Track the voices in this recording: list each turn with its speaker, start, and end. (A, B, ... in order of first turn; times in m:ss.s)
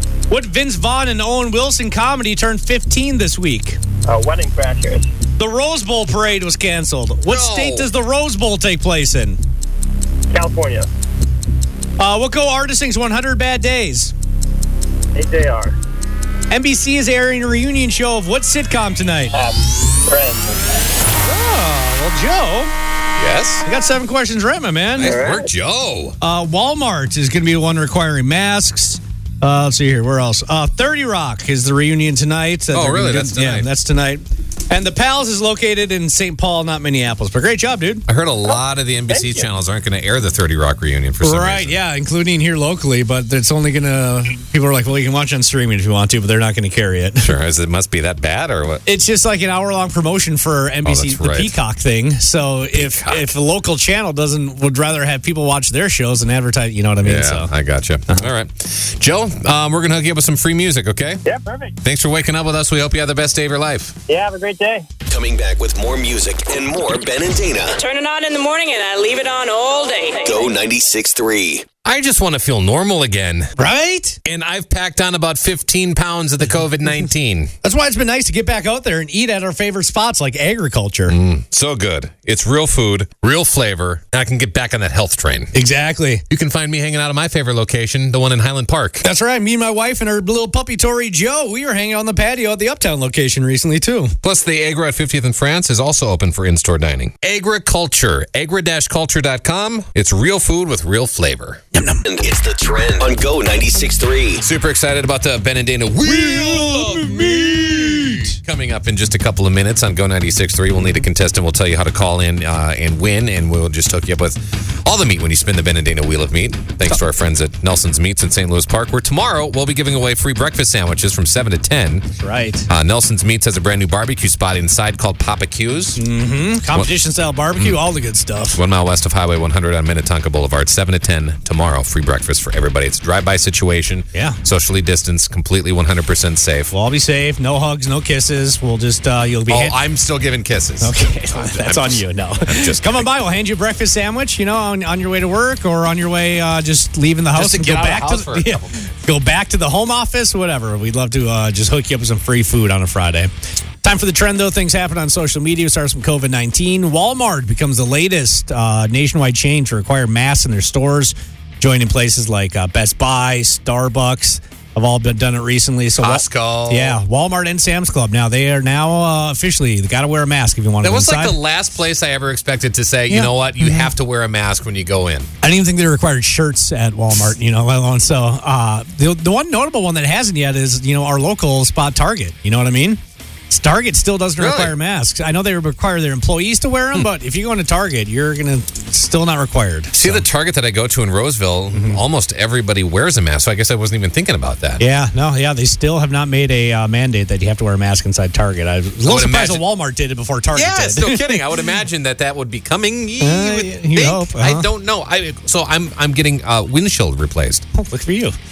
0:00.3-0:03.8 A
0:04.0-0:05.1 B
0:05.4-0:09.4 A
0:07.3-0:07.9 C
0:10.3-0:10.9 B
0:12.0-0:14.1 A
0:15.1-0:15.8 B
0:16.5-0:19.3 A
0:19.3-0:20.6 B
0:21.2-0:22.7 A
0:23.2-0:23.6 C
0:23.6-0:25.2 A
0:25.0-0:26.2 C
0:25.0-0:25.5 B
0:26.2-0:38.0 A
0:32.7-0:33.7 C
0:38.1-0:41.8 C
0:38.4-0:39.5 B
0:41.2-0:47.3 A
0:47.2-0:48.8 C
0:48.8-0:57.5 A
0:50.8-0:51.5 C
0:52.7-0:53.3 C
0:57.0-1:01.2 C
1:01.2-1:01.7 B
1:01.8-1:03.9 C
1:04.1-1:04.9 B
1:05.0-1:07.8 D
1:07.7-1:10.4 E
1:10.2-1:11.6 D
1:11.8-1:13.5 C
1:13.6-1:14.2 A
1:14.2-1:17.5 C
1:17.6-1:21.1 A
1:21.1-1:25.5 C
1:25.5-1:26.2 A
1:26.3-1:29.1 C
1:29.0-1:34.1 A
1:34.2-1:41.6 C
1:41.7-1:42.0 A
1:42.0-1:44.4 D
1:44.4-2:02.1 C
1:46.1-1:48.3 A
2:02.2-2:02.7 A
2:02.7-2:06.0 C
2:06.0-2:08.6 A
2:08.5-2:16.7 C
2:14.1-2:14.4 A
2:16.7-2:19.8 A
2:19.5-2:23.0 C
2:20.8-2:33.3 A
2:27.3-2:28.7 C
2:33.8-2:51.4 A
2:46.0-2:47.0 C
2:50.8-2:55.3 C
2:53.1-2:53.9 A
2:55.4-3:10.2 A
3:04.4-3:04.7 C
3:09.9-3:14.8 C
3:11.7-3:12.0 A
3:14.8-3:21.6 A
3:19.0-3:19.6 C
3:20.5-3:27.6 C
3:23.2-3:24.7 A
3:27.7-3:28.4 A